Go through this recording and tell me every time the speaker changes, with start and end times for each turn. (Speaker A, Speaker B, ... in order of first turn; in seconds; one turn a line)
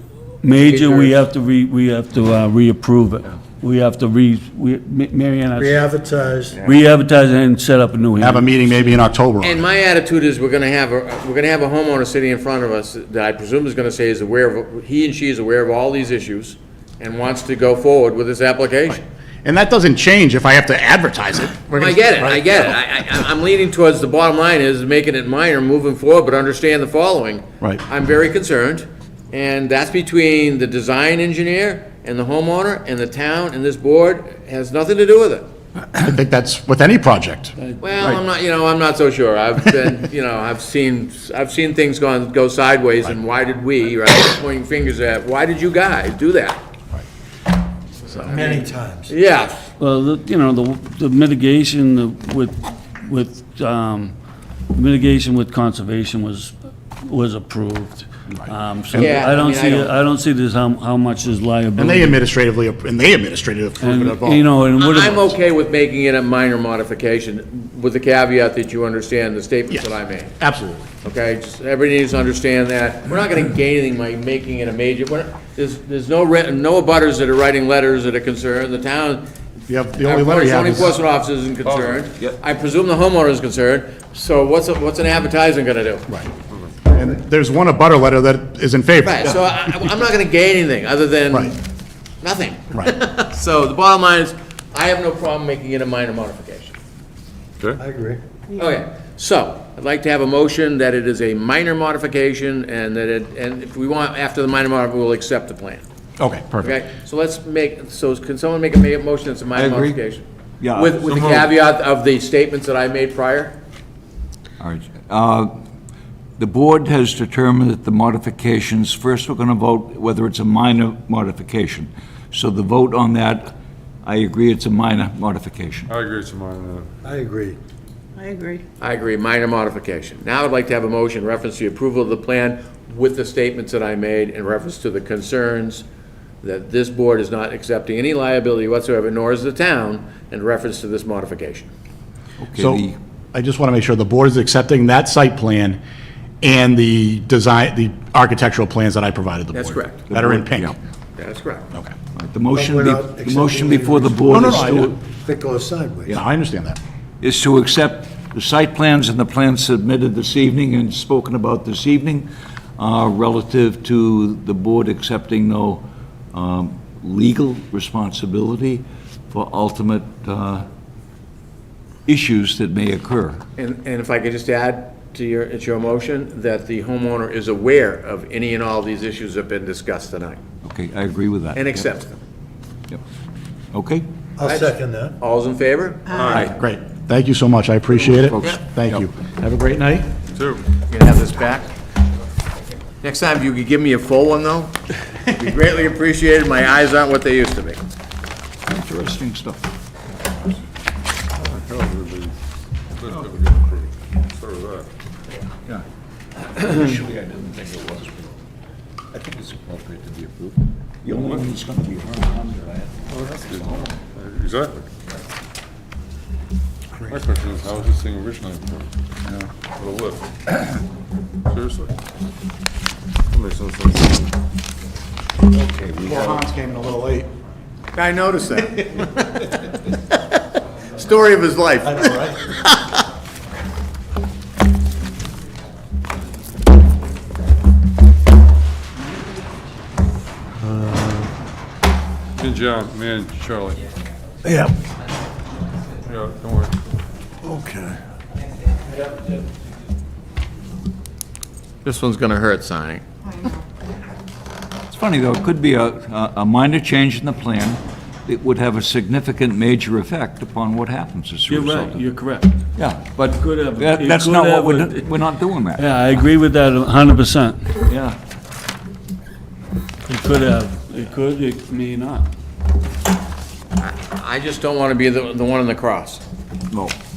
Speaker A: 0.4-5.8
Speaker B: 0.6-1.2
Speaker C: 5.5-6.7
Speaker A: 6.7-8.8
Speaker D: 8.2-9.6
Speaker B: 9.4-19.0
Speaker D: 18.9-22.7
Speaker B: 21.7-35.5
Speaker D: 35.9-38.2
Speaker A: 37.6-38.0
Speaker B: 37.8-46.6
Speaker B: 48.0-49.7
Speaker C: 48.2-49.1
Speaker A: 49.8-54.1
Speaker A: 54.7-62.2
Speaker D: 58.3-59.2
Speaker B: 59.0-60.0
Speaker D: 61.8-64.4
Speaker A: 63.8-65.3
Speaker B: 64.8-70.3
Speaker D: 70.4-70.9
Speaker B: 71.0-79.2
Speaker D: 79.7-80.9
Speaker B: 80.0-86.1
Speaker E: 81.6-82.0
Speaker D: 86.8-89.7
Speaker B: 89.0-91.5
Speaker B: 92.2-96.8
Speaker C: 97.8-98.2
Speaker B: 98.5-105.8
Speaker D: 106.2-106.7
Speaker B: 106.6-113.6
Speaker F: 109.5-110.0
Speaker F: 110.6-111.2
Speaker E: 111.0-111.5
Speaker F: 114.6-115.5
Speaker F: 116.4-123.5
Speaker F: 124.0-125.9
Speaker E: 125.9-126.9
Speaker C: 127.0-127.6
Speaker B: 128.8-135.8
Speaker B: 136.4-141.7
Speaker F: 142.4-143.0
Speaker D: 142.6-145.8
Speaker D: 146.4-150.8
Speaker B: 149.5-150.0
Speaker F: 150.1-150.8
Speaker B: 151.2-151.7
Speaker F: 152.1-155.0
Speaker C: 152.5-156.1
Speaker D: 154.3-154.9
Speaker D: 156.1-156.8
Speaker F: 157.2-170.7
Speaker F: 172.1-173.4
Speaker B: 173.6-180.4
Speaker F: 180.6-181.9
Speaker B: 181.5-182.2
Speaker F: 183.7-184.1
Speaker C: 184.4-185.2
Speaker B: 184.4-186.5
Speaker E: 186.1-186.5
Speaker D: 186.3-190.1
Speaker F: 188.1-189.0
Speaker E: 190.3-190.6
Speaker B: 190.9-191.7
Speaker B: 193.0-194.7
Speaker B: 195.3-197.8
Speaker F: 198.7-199.7
Speaker E: 201.4-202.3
Speaker E: 203.0-204.9
Speaker F: 206.4-208.3
Speaker F: 209.1-213.9
Speaker E: 211.2-211.4
Speaker E: 213.1-214.8
Speaker C: 217.0-217.7
Speaker E: 217.1-218.9
Speaker E: 219.8-220.3
Speaker E: 221.5-221.9
Speaker E: 223.3-224.3
Speaker F: 225.5-226.4
Speaker D: 226.0-227.3
Speaker B: 227.9-229.8
Speaker B: 230.9-232.9
Speaker C: 231.8-232.4
Speaker C: 240.7-241.3
Speaker E: 242.4-243.8
Speaker C: 244.4-244.7
Speaker E: 246.1-246.8
Speaker C: 247.5-247.9
Speaker B: 251.8-253.0
Speaker F: 254.9-262.0
Speaker A: 261.5-262.6
Speaker F: 262.7-266.3
Speaker A: 263.4-265.0
Speaker A: 265.8-267.7
Speaker F: 267.8-268.2
Speaker A: 270.1-272.3
Speaker B: 273.8-276.2
Speaker F: 276.7-276.9